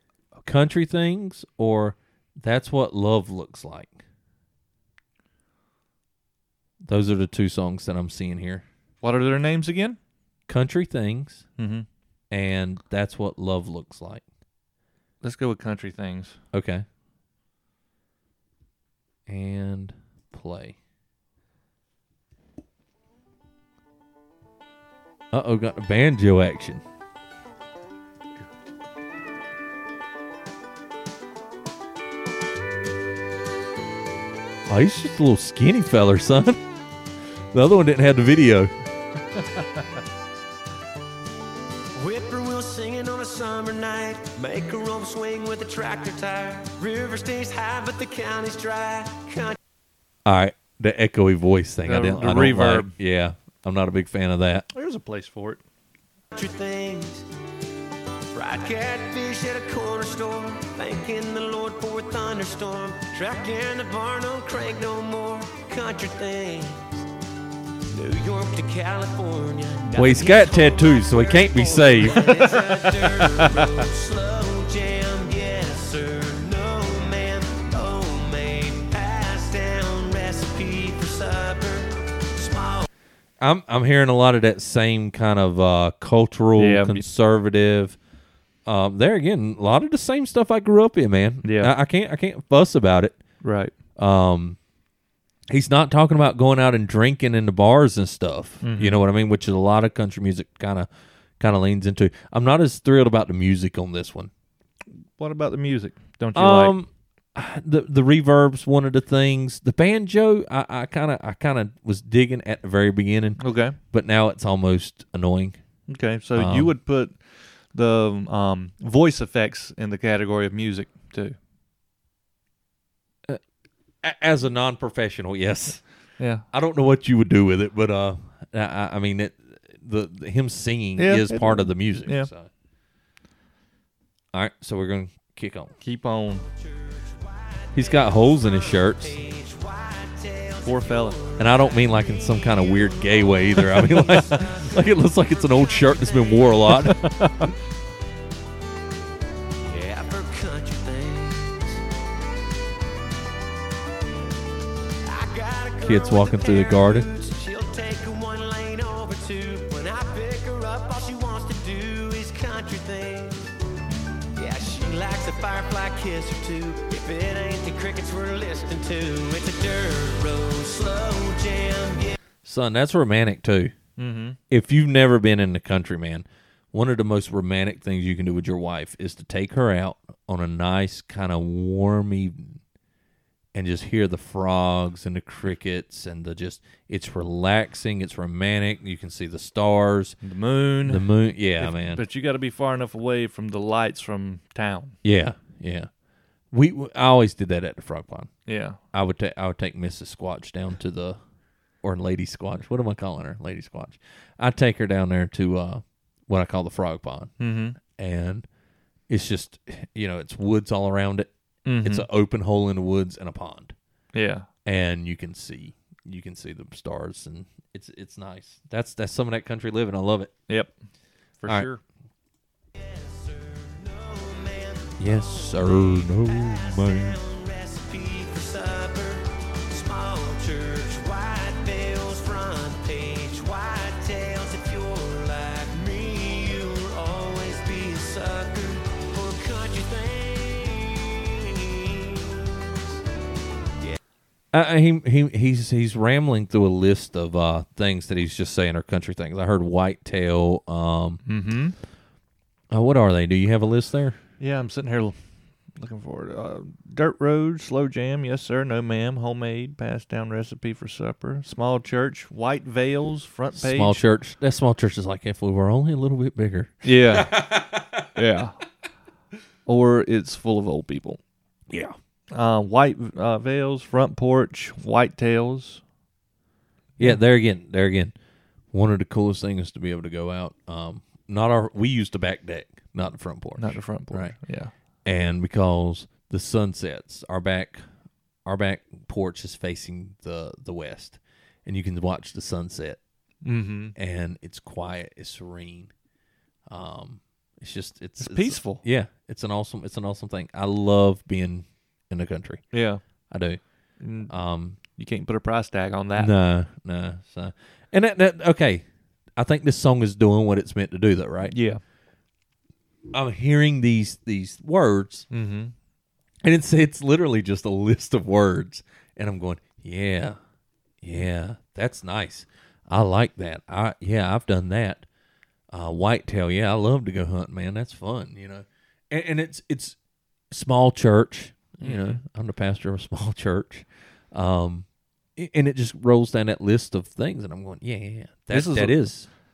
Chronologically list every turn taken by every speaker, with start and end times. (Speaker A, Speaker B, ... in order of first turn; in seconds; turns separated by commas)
Speaker A: 0.4-4.0, Speaker A: 6.8-8.6, Speaker B: 9.0-10.0, Speaker A: 10.5-11.4, Speaker B: 11.6-11.8, Speaker A: 12.3-14.2, Speaker B: 15.2-16.4, Speaker A: 16.5-16.8, Speaker A: 19.3-20.8, Speaker A: 25.3-26.8, Speaker A: 34.7-36.6, Speaker A: 37.5-38.7, Speaker C: 42.0-49.6, Speaker A: 50.2-54.6, Speaker B: 51.8-52.9, Speaker B: 54.7-55.6, Speaker C: 56.3-57.3, Speaker C: 58.3-67.1, Speaker C: 67.9-82.9, Speaker A: 70.0-72.6, Speaker B: 72.4-73.8, Speaker A: 83.4-88.0, Speaker B: 86.6-87.0, Speaker A: 88.7-93.2, Speaker B: 91.4-91.7, Speaker B: 93.4-93.7, Speaker A: 94.0-94.6, Speaker A: 95.5-104.3, Speaker B: 98.6-99.0, Speaker B: 105.2-106.7, Speaker A: 106.3-115.6, Speaker B: 113.4-113.8, Speaker B: 115.9-117.2, Speaker A: 116.3-116.7, Speaker B: 117.7-121.3, Speaker A: 124.0-125.8, Speaker B: 126.2-126.5, Speaker A: 126.5-132.5, Speaker B: 131.0-132.3, Speaker A: 134.3-135.7, Speaker B: 135.8-136.4, Speaker C: 136.4-141.5, Speaker A: 137.7-139.2, Speaker B: 140.6-141.2, Speaker A: 141.4-147.0, Speaker B: 143.8-144.4, Speaker C: 144.1-144.8, Speaker C: 145.6-146.7, Speaker B: 146.7-147.5, Speaker C: 149.6-151.8, Speaker C: 155.0-163.5, Speaker A: 155.8-157.1, Speaker C: 164.3-172.2, Speaker A: 172.4-173.7, Speaker B: 174.0-174.4, Speaker A: 174.5-182.6, Speaker A: 183.5-190.2, Speaker B: 190.2-191.1, Speaker A: 190.8-192.0, Speaker B: 191.6-194.9, Speaker A: 195.0-195.9, Speaker A: 196.5-198.3, Speaker B: 198.5-198.8, Speaker A: 198.9-201.2, Speaker A: 201.8-208.4, Speaker B: 207.4-207.8, Speaker A: 209.1-211.3, Speaker B: 211.7-212.1, Speaker A: 211.8-213.7, Speaker B: 214.1-214.5, Speaker A: 214.7-220.3, Speaker B: 221.4-221.8, Speaker C: 222.7-242.4, Speaker A: 225.0-227.2, Speaker A: 244.5-251.2, Speaker B: 251.2-251.8, Speaker A: 252.7-254.2, Speaker B: 254.4-255.1, Speaker B: 255.8-264.0, Speaker A: 263.5-268.1, Speaker B: 266.8-267.4, Speaker B: 268.1-268.6, Speaker B: 269.6-271.2, Speaker A: 271.7-271.9, Speaker B: 272.3-275.8, Speaker A: 277.0-278.1, Speaker A: 278.7-284.3, Speaker B: 283.6-284.7, Speaker A: 285.0-287.8, Speaker A: 288.4-293.0, Speaker B: 293.4-293.9, Speaker A: 293.9-295.9, Speaker A: 296.7-302.6, Speaker B: 298.2-298.8, Speaker B: 302.7-303.0, Speaker A: 303.3-303.6, Speaker B: 304.0-304.3, Speaker A: 304.3-304.8, Speaker B: 304.9-306.3, Speaker A: 306.1-308.8, Speaker A: 309.4-311.5, Speaker B: 311.4-311.8, Speaker A: 313.1-315.3, Speaker B: 315.3-315.7, Speaker A: 316.4-320.4, Speaker A: 321.0-325.1, Speaker A: 325.7-330.0, Speaker A: 330.5-339.3, Speaker B: 331.8-332.2, Speaker B: 338.5-339.1